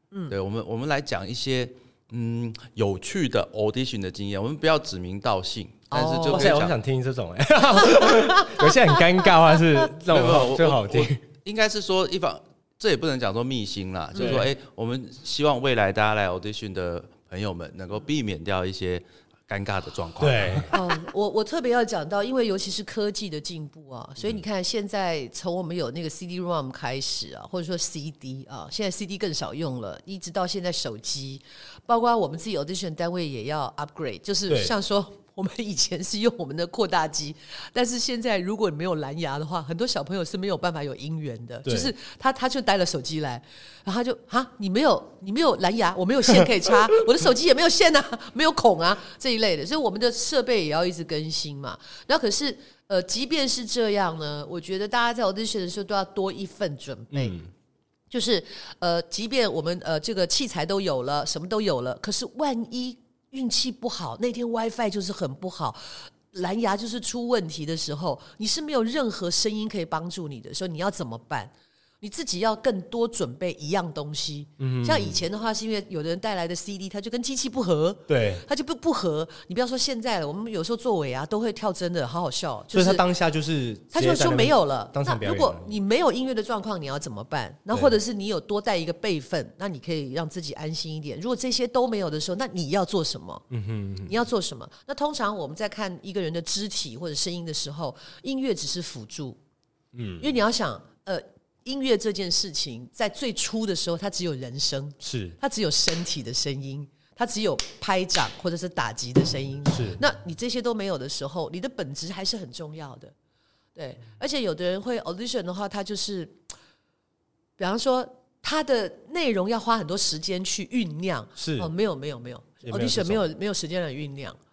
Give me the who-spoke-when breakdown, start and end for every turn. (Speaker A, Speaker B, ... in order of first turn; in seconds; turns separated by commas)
Speaker A: 0.3-6.8, Speaker B: 5.9-6.6, Speaker C: 6.3-11.2, Speaker B: 7.8-9.3, Speaker A: 10.1-20.8, Speaker B: 14.2-14.4, Speaker C: 14.2-14.5, Speaker C: 20.2-20.7, Speaker B: 20.7-57.4, Speaker C: 41.7-41.9, Speaker C: 57.1-57.5, Speaker B: 58.1-83.0, Speaker C: 74.6-75.2, Speaker C: 78.1-78.4, Speaker C: 82.7-85.8, Speaker B: 83.9-93.5, Speaker C: 93.5-94.2, Speaker B: 94.1-99.4, Speaker C: 99.9-100.3, Speaker B: 100.2-113.1, Speaker C: 105.0-105.4, Speaker C: 109.7-110.0, Speaker B: 113.8-116.4, Speaker B: 117.6-124.4, Speaker C: 121.4-121.7, Speaker C: 122.7-123.2